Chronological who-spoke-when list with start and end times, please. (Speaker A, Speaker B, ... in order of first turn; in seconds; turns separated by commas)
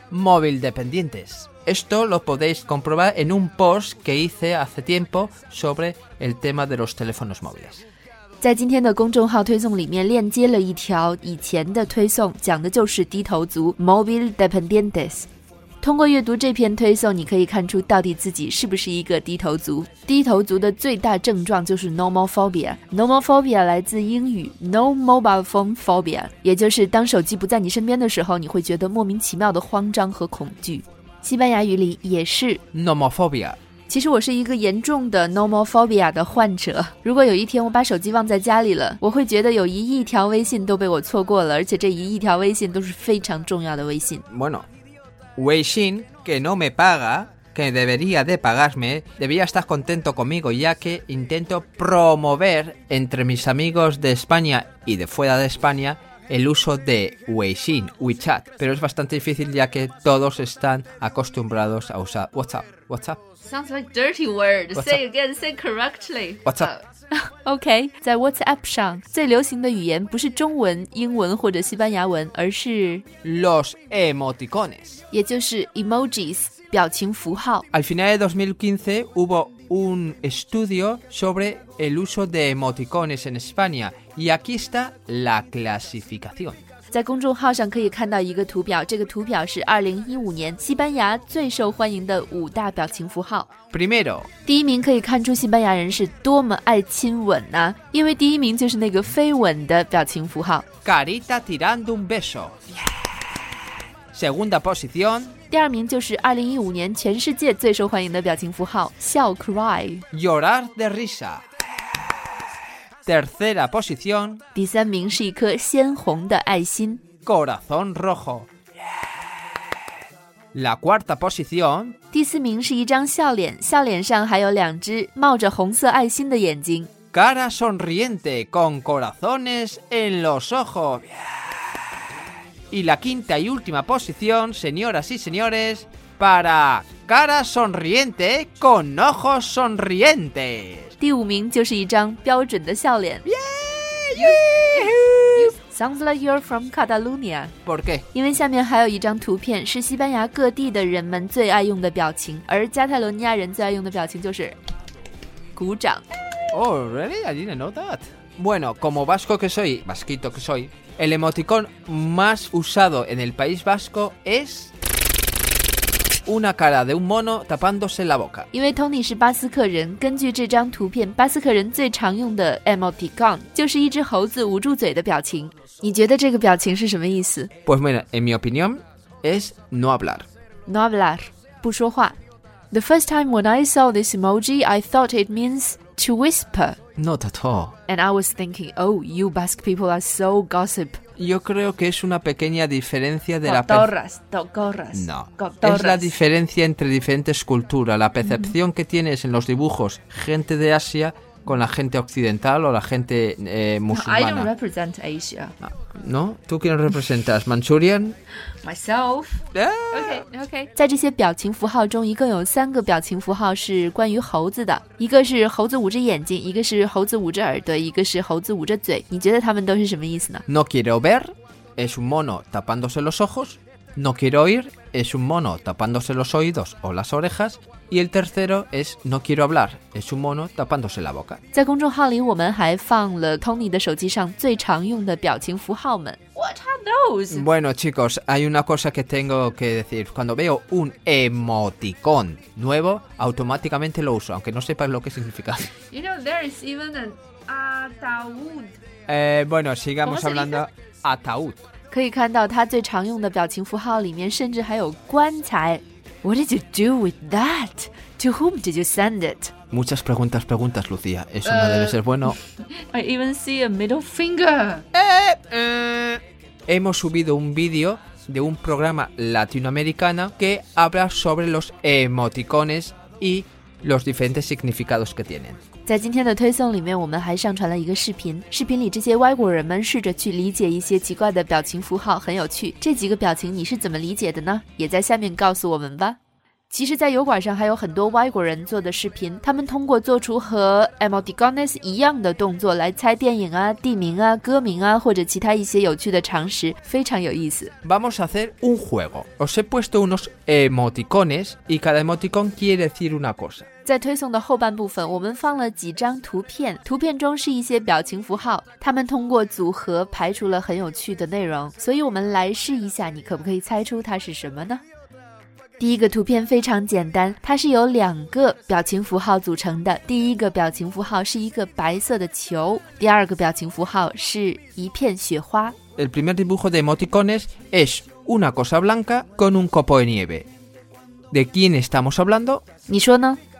Speaker A: 0.1-7.8, Speaker B: 8.4-15.3, Speaker B: 15.8-32.6, Speaker A: 32.7-33.6, Speaker B: 33.9-44.2, Speaker A: 44.3-44.7, Speaker A: 45.4-63.2, Speaker B: 63.4-73.0, Speaker A: 64.7-65.0, Speaker A: 66.4-66.7, Speaker A: 73.2-75.0, Speaker B: 75.1-77.7, Speaker A: 77.7-86.6, Speaker B: 86.9-93.5, Speaker A: 93.7-94.3, Speaker B: 94.4-100.7, Speaker A: 100.8-102.6, Speaker A: 104.1-105.3, Speaker B: 105.5-110.0, Speaker A: 110.1-111.4, Speaker A: 113.0-114.4, Speaker B: 114.5-117.0, Speaker A: 117.2-118.5, Speaker A: 120.5-122.0, Speaker B: 122.1-126.9, Speaker A: 127.1-131.5, Speaker A: 132.7-141.0, Speaker B: 141.0-143.2, Speaker A: 143.2-145.5, Speaker B: 144.1-147.5, Speaker A: 147.6-148.1, Speaker B: 148.1-154.6, Speaker B: 155.5-156.1, Speaker A: 156.5-164.7, Speaker A: 166.2-168.5, Speaker B: 168.5-177.5, Speaker A: 177.6-180.3, Speaker B: 180.7-182.2, Speaker B: 182.7-186.8, Speaker A: 187.0-187.7, Speaker B: 187.9-191.0, Speaker A: 191.2-193.9, Speaker B: 193.4-196.1, Speaker A: 194.9-204.5, Speaker B: 203.9-205.5, Speaker A: 205.6-208.2, Speaker B: 208.6-220.4, Speaker A: 209.5-210.2, Speaker A: 220.5-231.4, Speaker B: 231.5-237.4, Speaker A: 237.3-245.7, Speaker B: 245.9-248.7, Speaker A: 249.1-251.6, Speaker B: 250.0-250.6, Speaker B: 251.9-259.5, Speaker A: 259.7-262.4, Speaker B: 261.4-264.8, Speaker A: 264.9-275.6, Speaker B: 275.9-286.2, Speaker B: 286.7-297.7, Speaker A: 297.8-303.7, Speaker B: 303.8-314.8, Speaker B: 315.8-325.8, Speaker A: 326.0-330.5, Speaker A: 331.3-332.6, Speaker B: 332.9-333.4